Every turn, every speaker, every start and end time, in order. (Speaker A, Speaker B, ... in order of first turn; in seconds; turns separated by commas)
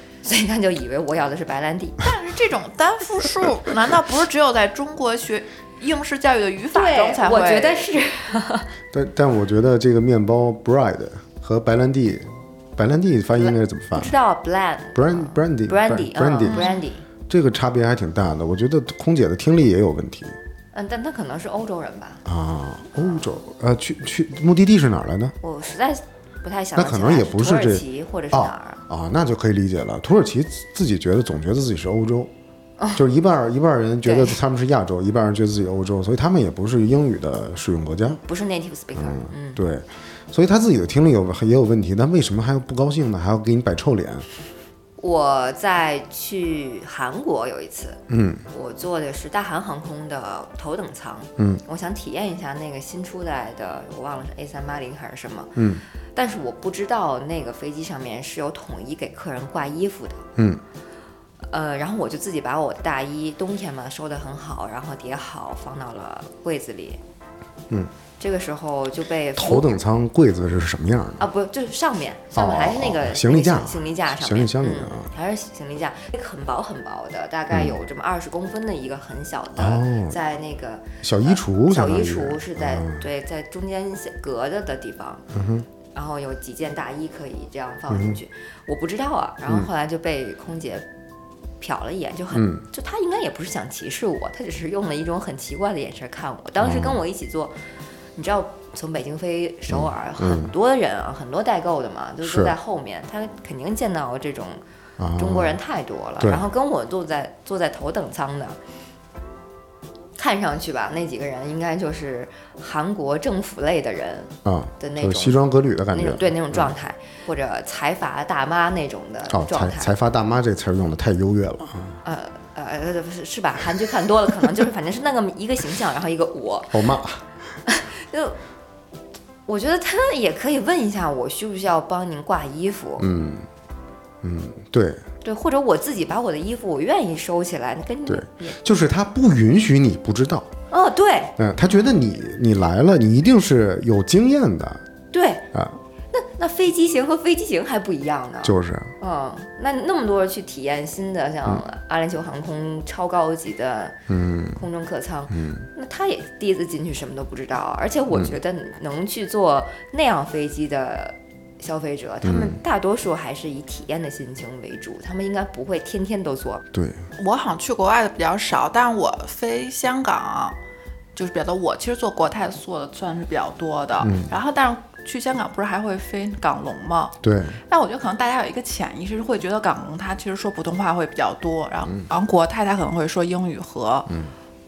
Speaker A: 0.2-2.1, Speaker B: 2.0-7.9, Speaker A: 6.7-8.7, Speaker C: 8.9-14.1, Speaker A: 13.4-17.1, Speaker C: 14.9-16.7, Speaker B: 16.4-16.8, Speaker C: 17.3-20.4, Speaker A: 20.7-22.2, Speaker C: 22.2-25.4, Speaker A: 23.0-23.3, Speaker A: 25.4-28.8, Speaker C: 26.8-32.3, Speaker C: 33.0-38.2, Speaker A: 34.0-34.4, Speaker A: 38.1-39.6, Speaker C: 39.0-44.3, Speaker A: 45.0-55.6, Speaker C: 48.1-48.5, Speaker C: 55.6-55.8, Speaker A: 56.1-60.2, Speaker C: 60.4-60.6, Speaker A: 61.5-67.0, Speaker A: 68.2-69.7, Speaker C: 69.4-71.2, Speaker A: 71.2-85.2, Speaker C: 72.3-75.1, Speaker C: 77.5-77.8, Speaker C: 79.6-80.2, Speaker C: 81.0-83.0, Speaker C: 85.3-85.7, Speaker A: 85.9-90.9, Speaker C: 87.9-88.2, Speaker A: 91.6-97.6, Speaker C: 92.3-92.6, Speaker C: 96.6-97.0, Speaker A: 98.2-104.6, Speaker C: 99.7-100.5, Speaker C: 102.2-102.5, Speaker C: 105.0-105.6, Speaker A: 105.2-108.6, Speaker A: 110.2-115.4, Speaker C: 114.5-116.7, Speaker A: 115.9-119.9, Speaker C: 119.3-122.0, Speaker A: 122.0-126.9, Speaker C: 126.7-127.2, Speaker A: 127.7-128.4, Speaker A: 129.5-133.1, Speaker C: 133.0-133.5, Speaker C: 134.2-135.0, Speaker A: 135.2-138.6, Speaker C: 138.1-140.5, Speaker A: 140.7-141.3, Speaker C: 141.4-144.8, Speaker A: 145.1-145.5, Speaker C: 145.5-145.8, Speaker A: 146.1-154.0, Speaker C: 148.4-148.9, Speaker C: 154.1-154.6, Speaker A: 154.5-166.6, Speaker C: 155.3-155.7, Speaker C: 162.2-162.6, Speaker C: 166.7-167.0, Speaker B: 167.2-170.6, Speaker B: 171.2-184.1, Speaker C: 174.0-174.3, Speaker C: 177.2-177.6